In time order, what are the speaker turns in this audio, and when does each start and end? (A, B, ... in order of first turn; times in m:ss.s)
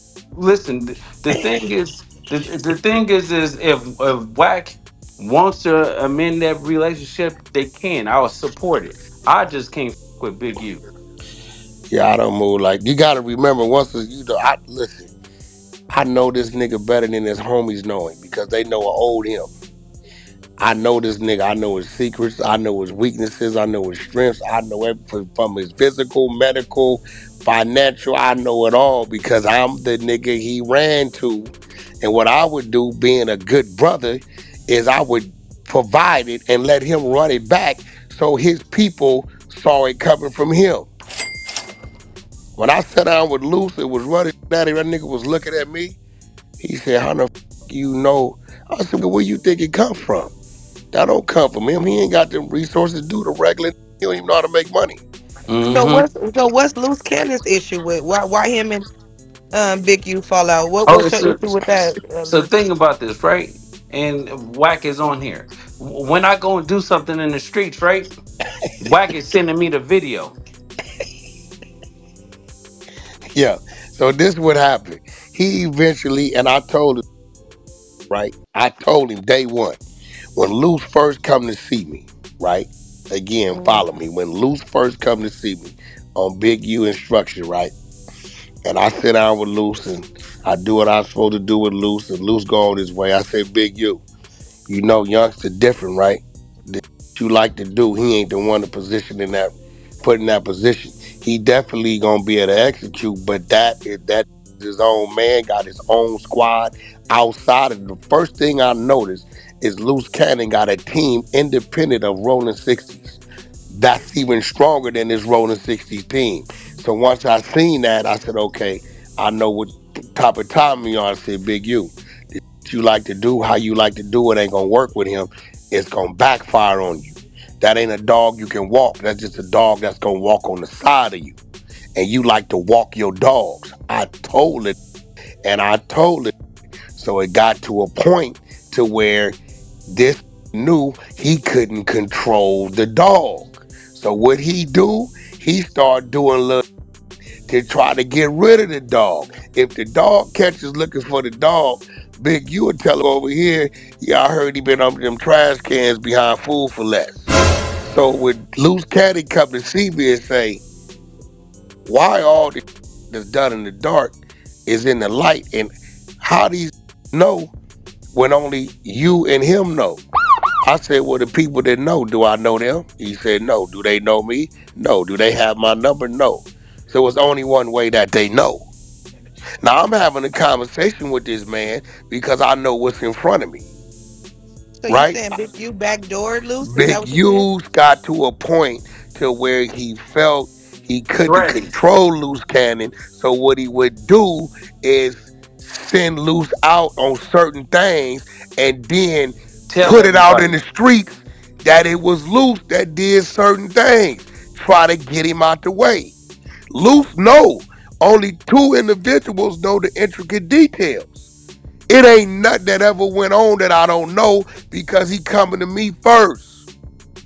0:00.3-0:10.8 A
0:11.9-0:15.1 B
0:15.9-0:19.5 B
0:20.6-0:40.9 B
0:42.6-0:46.0 B
0:46.6-0:50.3 B
0:50.9-0:55.0 B
0:55.5-0:56.1 A
0:55.7-0:58.9 C
0:59.5-1:02.5 C
1:00.9-1:01.5 A
1:02.3-1:08.1 A
1:08.8-1:10.4 A
1:13.4-1:17.0 B
1:18.1-1:19.8 B
1:20.4-1:27.7 B
1:23.5-1:23.9 C
1:28.6-1:34.0 B
1:34.7-2:11.4 B
2:12.0-2:14.8 B
2:15.4-2:16.4 B
2:17.0-2:19.4 B
2:19.9-2:26.6 B
2:27.5-2:37.3 B
2:37.8-2:40.6 B
2:41.8-2:44.2 B
2:44.7-2:47.5 B
2:48.1-2:50.0 B
2:50.6-2:58.7 B
2:59.6-3:03.7 B
3:04.8-3:07.5 C
3:04.9-3:05.2 B
3:06.6-3:26.2 B
3:11.2-3:11.7 A
3:19.7-3:20.6 A
3:26.7-3:31.2 B
3:31.9-3:36.6 B